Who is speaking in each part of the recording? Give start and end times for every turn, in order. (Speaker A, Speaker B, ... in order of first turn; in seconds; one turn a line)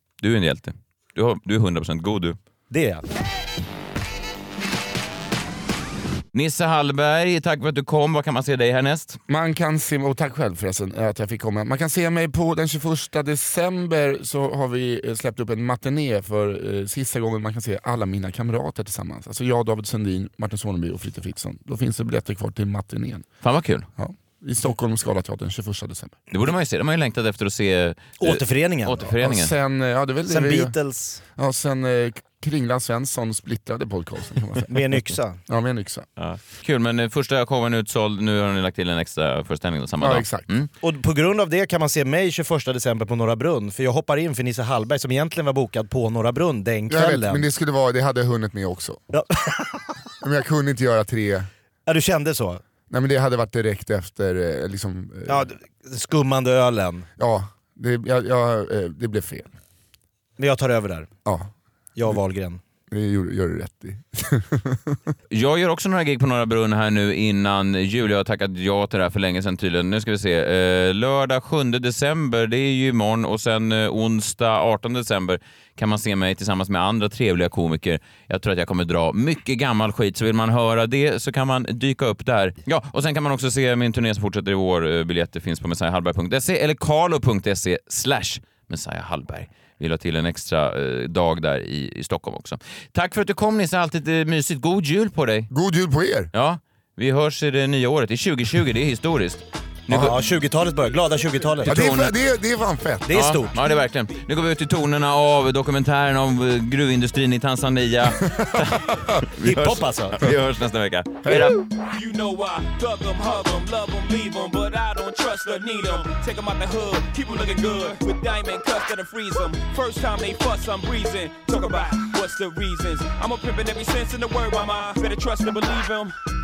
Speaker A: 0.2-2.4
Speaker B: 2.7-3.0
Speaker A: 6.3-9.2
Speaker C: 9.3-23.3
Speaker A: 23.4-23.9
Speaker C: 24.0-26.2
Speaker A: 26.3-29.5
Speaker B: 28.2-29.1
Speaker C: 29.2-30.8
Speaker B: 30.3-31.2
Speaker C: 31.4-34.8
Speaker B: 34.7-35.4
Speaker C: 35.5-36.1
Speaker A: 36.2-40.7
Speaker C: 40.0-40.5
Speaker B: 40.8-47.5
Speaker C: 46.9-49.0
Speaker B: 49.1-49.9
Speaker C: 50.2-51.5
Speaker B: 51.9-52.6
Speaker C: 52.9-55.5
Speaker B: 55.3-57.1
Speaker C: 57.2-59.5
Speaker B: 60.4-61.1
Speaker C: 61.2-61.5
Speaker B: 62.0-62.6
Speaker C: 62.9-65.0
Speaker A: 65.3-95.5
Speaker C: 95.5-96.3
Speaker A: 96.3-100.2
Speaker B: 99.9-101.8
Speaker A: 101.7-102.1
Speaker C: 101.7-103.2
Speaker B: 103.1-103.5
Speaker A: 103.1-111.6
Speaker C: 108.3-109.1
Speaker B: 109.4-110.2
Speaker C: 111.2-111.5
Speaker D: 111.7-126.1